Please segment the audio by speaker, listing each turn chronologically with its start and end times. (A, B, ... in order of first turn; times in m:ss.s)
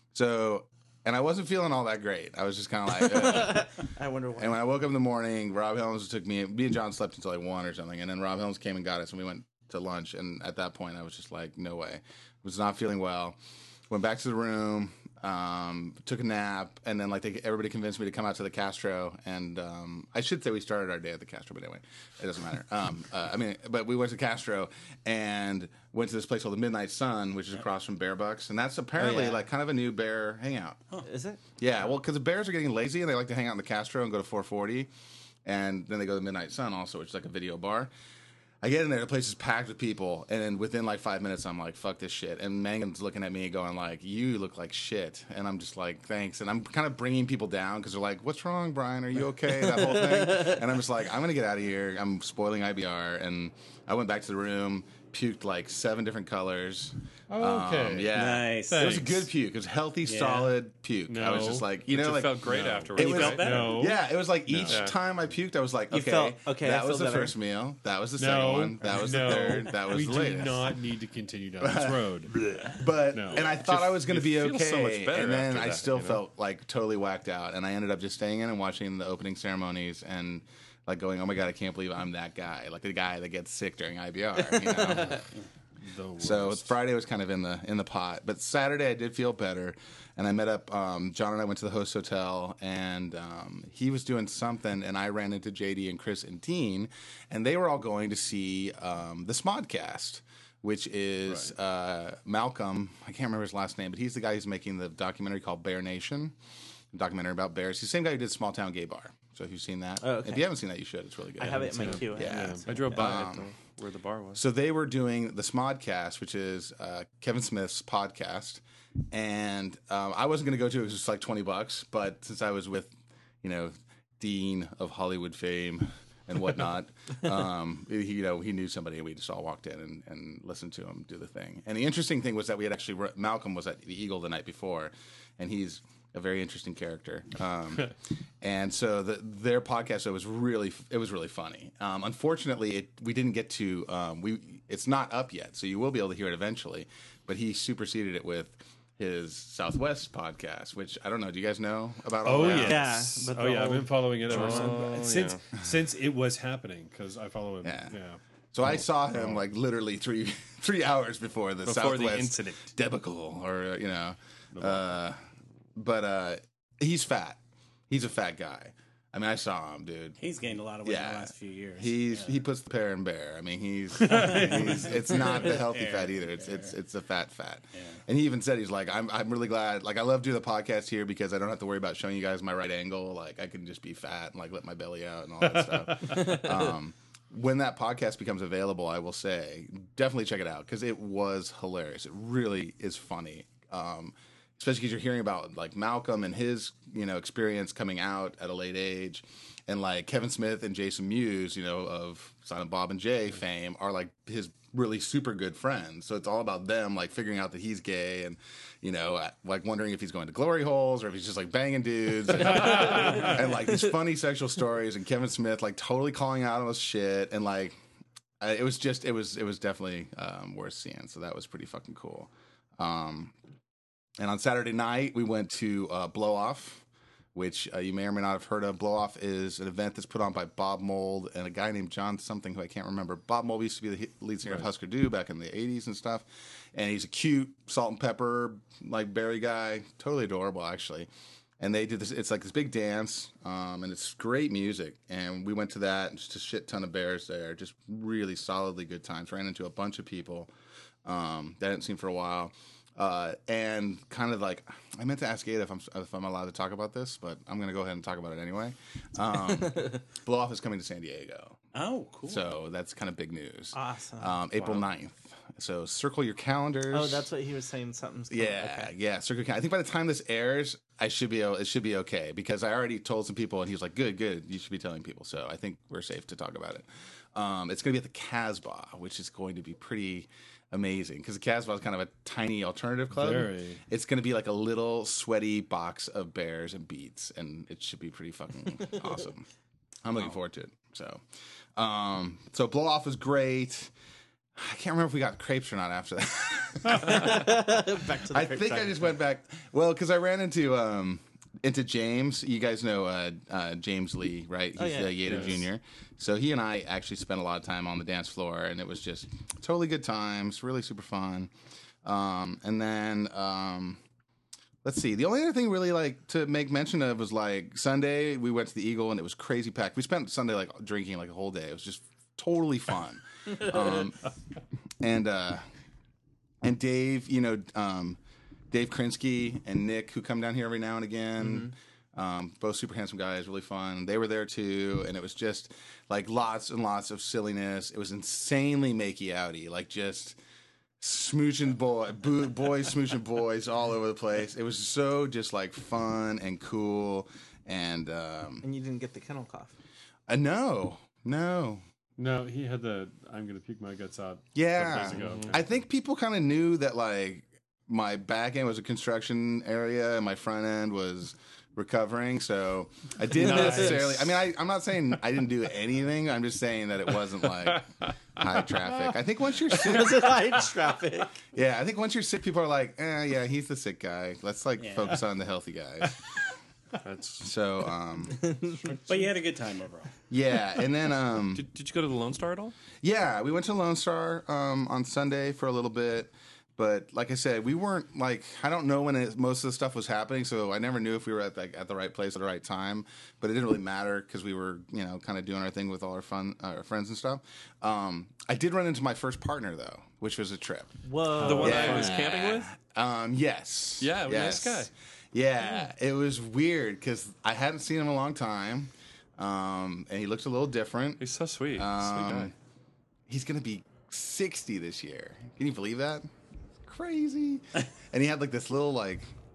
0:00.1-0:03.7 A
0:03.2-0:04.6 B
0:04.4-0:13.4 A
0:13.9-0:30.8 A
0:29.0-0:29.4 B
0:31.0-0:31.4 B
0:31.6-0:34.9 A
0:35.4-0:37.9 A
0:38.6-1:10.7 A
0:57.3-0:59.3 C
0:58.1-0:59.0 D
1:00.0-1:00.5 D
1:01.1-1:01.7 C
1:01.9-1:03.6 E
1:02.4-1:04.8 C
1:03.0-1:03.8 D
1:04.6-1:05.0 E
1:05.9-1:07.4 B
1:08.2-1:12.4 C
1:11.6-1:25.2 A
1:13.1-1:13.6 C
1:13.6-1:16.2 E
1:25.8-1:26.8 C
1:26.2-1:46.4 A
1:46.9-1:53.6 A
1:50.0-1:50.5 B
1:51.4-1:52.8 B
1:51.6-1:53.2 C
1:52.2-1:54.4 E
1:54.3-2:32.9 A
2:32.2-2:39.4 C
2:32.4-2:34.7 B
2:34.3-2:35.6 E
2:37.6-2:38.0 A
2:38.5-2:45.2 A
2:41.6-2:42.7 E
2:44.6-2:44.9 C
2:45.8-2:50.2 A
2:50.2-2:52.4 D
2:50.8-3:37.8 A
2:54.0-2:56.7 D
2:54.1-2:54.9 C
2:57.7-2:58.0 D
3:32.5-3:33.4 C
3:38.4-3:43.4 A
3:44.2-4:01.1 A
4:01.6-4:10.5 A
4:11.0-4:21.6 A
4:21.7-4:22.5 D
4:22.3-4:27.3 A
4:23.7-4:24.8 B
4:26.9-4:28.9 B
4:28.3-4:49.5 A
4:43.1-4:43.8 C
4:50.0-4:51.2 A
4:51.8-4:53.9 A
4:54.6-4:57.6 A
4:56.9-4:59.2 B
4:58.3-5:11.5 A
5:04.8-5:05.6 B
5:05.2-5:05.6 C
5:12.0-5:14.0 A
5:14.8-5:24.2 A
5:25.0-5:25.7 A
5:26.6-5:28.2 A
5:28.7-5:40.4 A
5:41.0-5:48.7 A
5:48.6-5:49.8 B
5:50.3-5:51.8 A
5:52.2-5:55.6 C
5:54.6-6:10.4 A
5:55.1-5:55.6 E
6:03.4-6:04.1 C
6:03.4-6:04.0 B
6:09.7-6:11.4 B
6:11.5-6:16.4 A
6:14.8-6:15.2 D
6:17.0-6:17.5 E
6:17.4-6:18.6 A
6:19.1-6:20.1 D
6:20.3-6:21.7 A
6:21.5-6:22.8 E
6:23.0-6:52.5 A
6:41.0-6:42.2 B
6:41.4-6:42.8 E
6:44.0-6:44.9 E
6:51.2-6:52.5 E
6:53.3-6:56.3 A
6:56.8-6:59.3 A